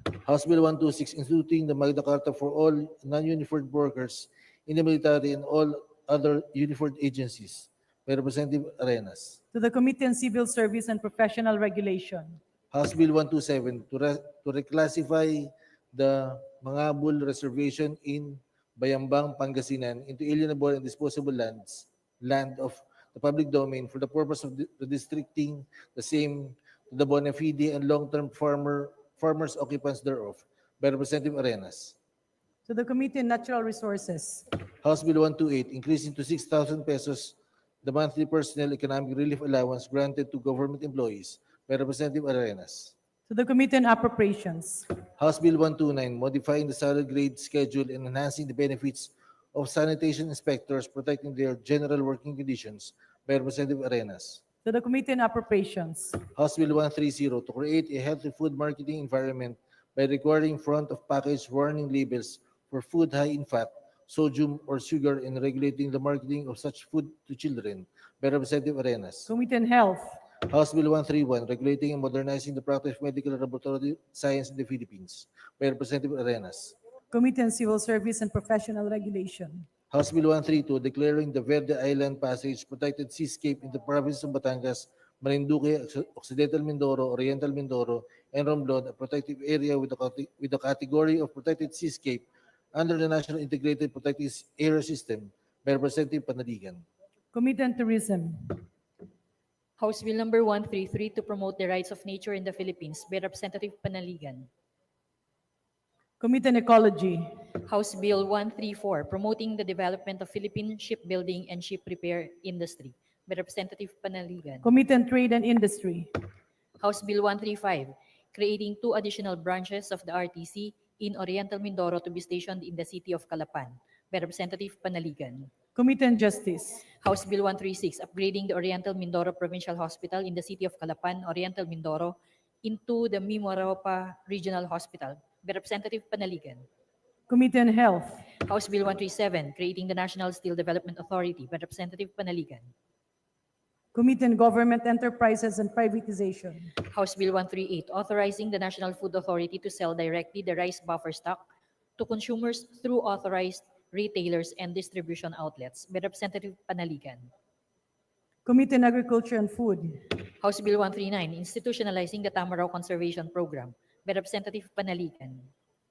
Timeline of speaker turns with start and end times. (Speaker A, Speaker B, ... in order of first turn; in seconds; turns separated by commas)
Speaker A: 0.2-9.4, Speaker B: 9.5-12.4, Speaker A: 12.7-31.9, Speaker B: 32.6-34.4, Speaker A: 34.8-42.9, Speaker B: 43.3-44.9, Speaker A: 45.2-54.4, Speaker B: 54.6-56.2, Speaker A: 56.3-69.3, Speaker B: 69.3-70.2, Speaker A: 70.5-76.7, Speaker B: 77.1-79.7, Speaker A: 79.9-96.8, Speaker B: 97.3-98.6, Speaker C: 99.8-104.5, Speaker B: 106.2-107.3, Speaker C: 107.6-114.7, Speaker B: 114.6-116.1, Speaker C: 116.8-125.5, Speaker B: 125.7-126.8, Speaker C: 127.0-136.7, Speaker B: 137.3-138.2, Speaker C: 138.4-142.7, Speaker B: 143.9-146.7, Speaker C: 146.8-151.4, Speaker C: 152.0-157.3, Speaker B: 158.4-160.0, Speaker C: 160.3-165.5